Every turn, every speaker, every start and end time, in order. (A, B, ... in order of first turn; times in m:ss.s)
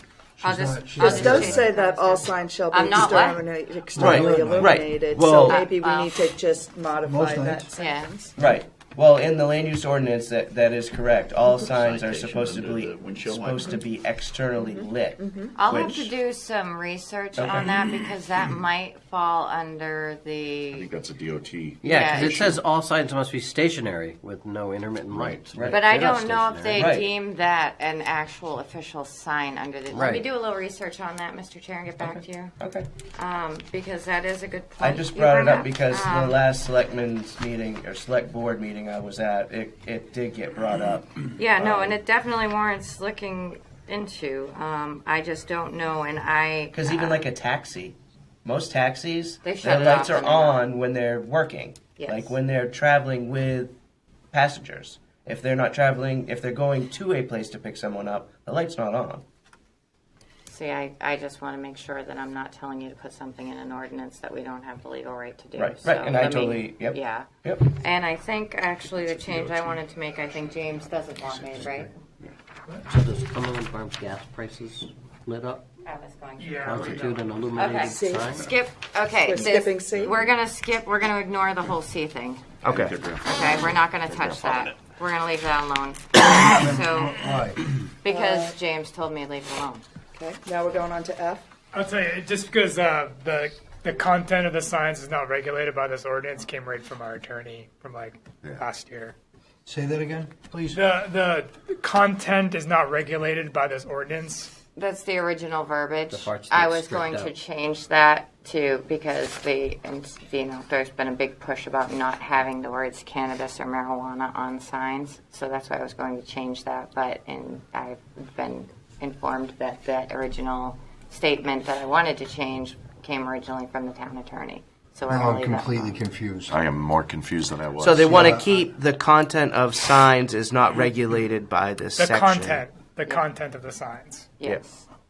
0:00.4-0:01.7 A
0:00.4-0:03.4 B
0:01.0-0:08.3 C
0:04.0-0:04.8 A
0:04.0-0:05.7 D
0:05.4-0:06.4 B
0:07.0-0:07.6 A
0:07.7-0:08.2 B
0:08.4-0:16.1 D
0:11.6-0:13.8 E
0:14.6-0:15.6 C
0:15.5-0:20.9 B
0:17.4-0:17.8 D
0:20.7-0:22.6 E
0:21.8-0:26.9 F
0:21.8-0:22.5 B
0:25.1-0:25.7 E
0:25.5-0:25.8 D
0:25.7-0:32.5 B
0:26.7-0:27.1 D
0:29.9-0:30.3 F
0:32.6-0:32.9 D
0:33.1-0:36.4 B
0:34.8-0:42.0 D
0:41.4-0:47.2 B
0:46.7-0:53.7 D
0:49.4-0:50.6 B
0:52.0-0:52.4 B
0:54.3-0:59.2 D
1:00.5-1:11.9 B
1:05.6-1:07.6 D
1:08.8-1:12.3 E
1:12.9-1:15.6 F
1:15.8-1:22.4 B
1:16.4-1:16.7 G
1:16.6-1:18.4 F
1:16.8-1:17.1 E
1:17.9-1:18.3 C
1:19.2-1:20.1 C
1:22.6-1:23.0 D
1:22.6-1:24.7 E
1:23.2-1:27.4 B
1:26.4-1:27.6 A
1:28.0-1:29.8 B
1:28.0-1:28.6 C
1:30.1-1:31.4 C
1:31.7-1:39.1 G
1:39.6-1:40.8 A
1:40.7-1:44.5 G
1:44.7-2:06.0 B
1:46.1-1:47.3 F
2:05.1-2:06.6 A
2:06.5-2:08.3 E
2:07.8-2:12.6 D
2:08.0-2:08.5 A
2:12.0-2:14.3 G
2:14.4-2:14.8 B